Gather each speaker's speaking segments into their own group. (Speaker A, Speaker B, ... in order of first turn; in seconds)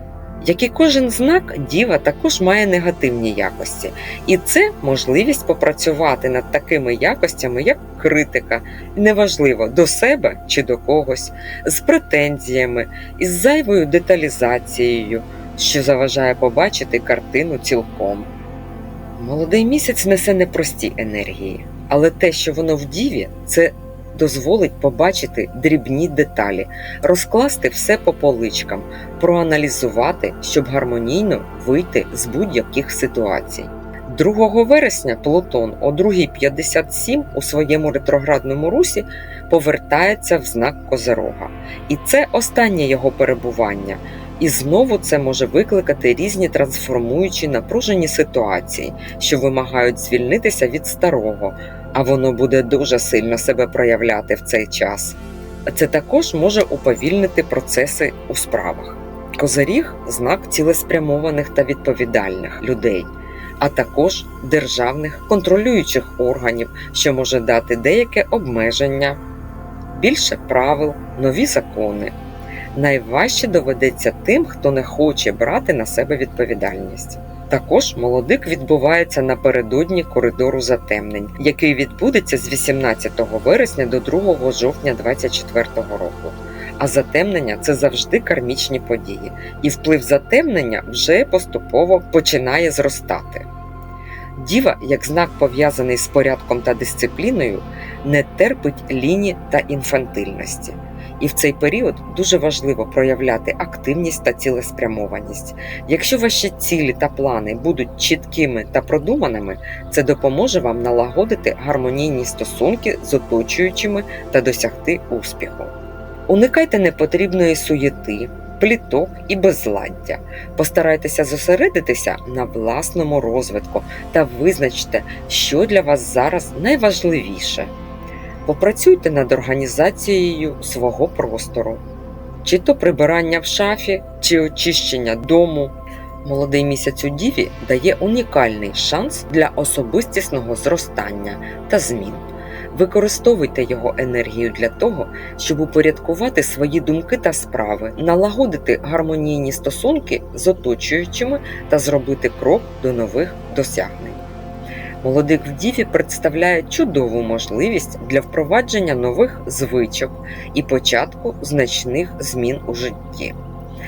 Speaker A: 0.4-18.3, 19.2-69.2, 69.9-72.1, 72.7-93.5, 94.4-115.7, 116.3-127.7, 128.4-131.8, 132.4-154.2, 155.0-163.3